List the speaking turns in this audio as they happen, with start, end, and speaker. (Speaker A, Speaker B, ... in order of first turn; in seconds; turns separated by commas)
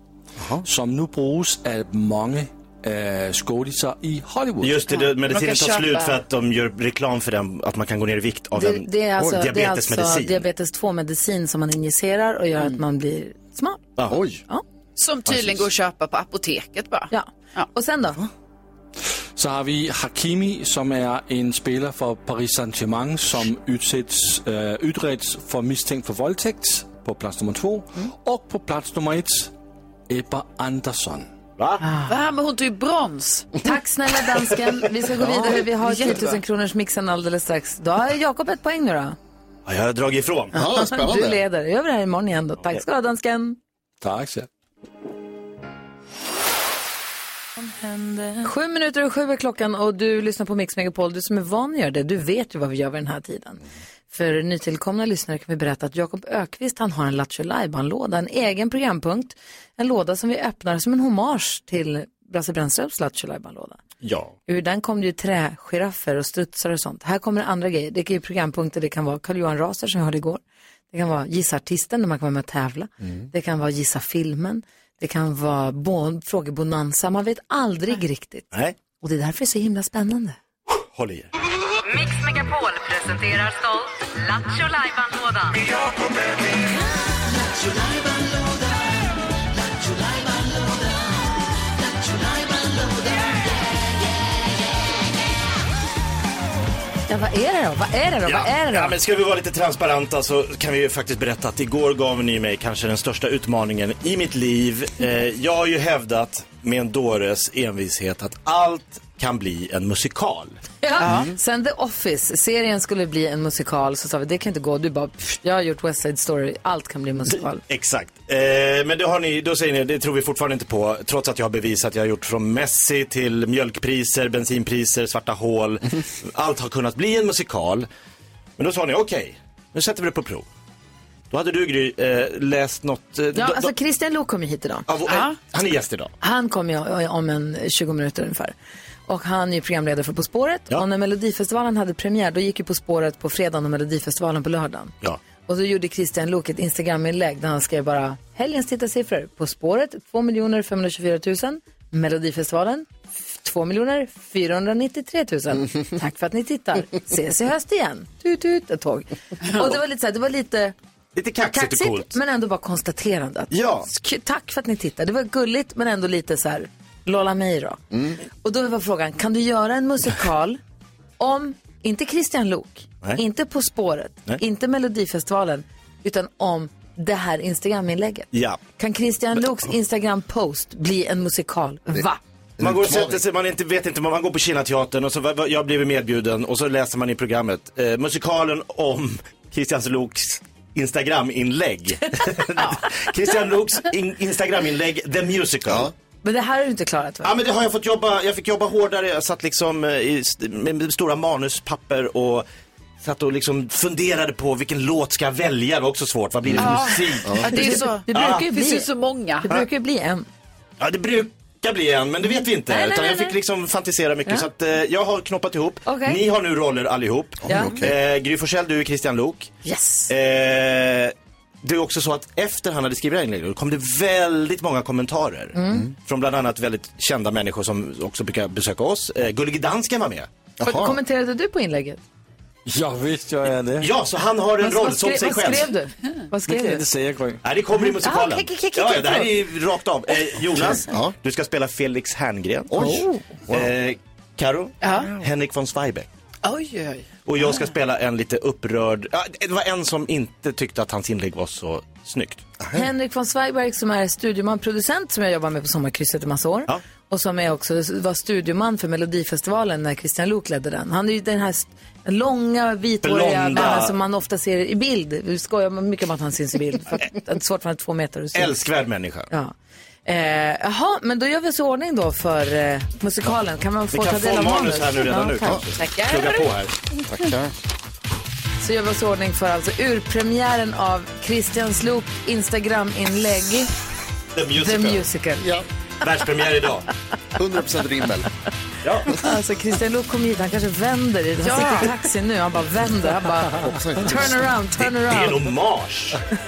Speaker A: 0.4-0.6, Speaker B: 0.6-4.8, Speaker C: 4.6-10.4, Speaker D: 4.9-6.2, Speaker E: 8.6-13.8, Speaker C: 14.0-14.2, Speaker A: 14.1-14.4, Speaker D: 15.0-17.7, Speaker E: 17.1-18.2, Speaker B: 19.4-29.5, Speaker B: 30.1-31.3, Speaker C: 31.6-31.8, Speaker E: 31.8-32.1, Speaker D: 32.1-33.5, Speaker E: 33.6-39.1, Speaker B: 35.2-35.5, Speaker D: 35.8-36.4, Speaker C: 39.6-40.6, Speaker A: 40.5-41.4, Speaker E: 40.5-43.6, Speaker B: 44.0-44.5, Speaker E: 47.6-63.8, Speaker C: 64.0-64.3, Speaker E: 64.5-70.4, Speaker E: 70.9-80.4, Speaker C: 80.9-81.3, Speaker F: 81.8-85.6, Speaker E: 97.1-99.0, Speaker C: 98.2-110.6, Speaker E: 110.8-117.6, Speaker D: 111.0-111.3, Speaker C: 117.3-127.9, Speaker C: 128.6-130.5, Speaker C: 131.3-133.7, Speaker E: 133.3-134.8, Speaker C: 134.9-136.1, Speaker D: 135.1-135.3, Speaker E: 136.2-138.5, Speaker E: 139.1-144.9, Speaker E: 145.4-160.7, Speaker C: 161.1-162.1, Speaker E: 161.5-167.8, Speaker C: 163.5-163.9, Speaker A: 167.9-168.2, Speaker E: 168.4-170.6, Speaker E: 171.2-182.2, Speaker C: 178.3-178.6, Speaker A: 182.6-183.2, Speaker C: 182.6-195.9, Speaker D: 192.6-192.8, Speaker A: 195.7-195.9, Speaker E: 196.2-197.3, Speaker C: 197.2-202.5, Speaker C: 203.0-208.4, Speaker A: 206.4-207.6, Speaker D: 206.6-209.4, Speaker E: 207.4-208.9, Speaker E: 209.4-210.3, Speaker C: 210.8-219.5, Speaker E: 212.7-213.3, Speaker E: 215.8-216.2, Speaker A: 217.4-217.9, Speaker E: 217.5-217.7, Speaker E: 219.6-220.1, Speaker C: 220.1-230.3, Speaker E: 225.5-225.9, Speaker A: 230.6-231.0, Speaker E: 230.6-232.0, Speaker B: 232.7-233.9, Speaker C: 233.8-235.7, Speaker E: 234.6-236.8, Speaker B: 236.4-237.4, Speaker C: 237.4-242.9, Speaker E: 237.8-239.3, Speaker A: 240.6-241.1, Speaker A: 242.7-243.7, Speaker C: 243.5-246.1, Speaker D: 244.8-245.1, Speaker D: 246.4-247.1, Speaker C: 247.2-252.4, Speaker A: 252.6-252.9, Speaker E: 252.7-268.5, Speaker C: 263.0-263.9, Speaker C: 268.3-269.3, Speaker E: 270.0-275.6, Speaker C: 273.9-276.7, Speaker D: 275.8-276.4, Speaker A: 277.0-277.5, Speaker E: 278.6-283.7, Speaker C: 284.3-285.0, Speaker E: 284.6-285.4, Speaker A: 285.4-285.6, Speaker C: 286.0-286.9, Speaker A: 287.3-288.3, Speaker C: 288.8-289.1, Speaker E: 289.2-295.5, Speaker D: 291.4-291.9, Speaker A: 293.6-294.4, Speaker C: 294.8-296.2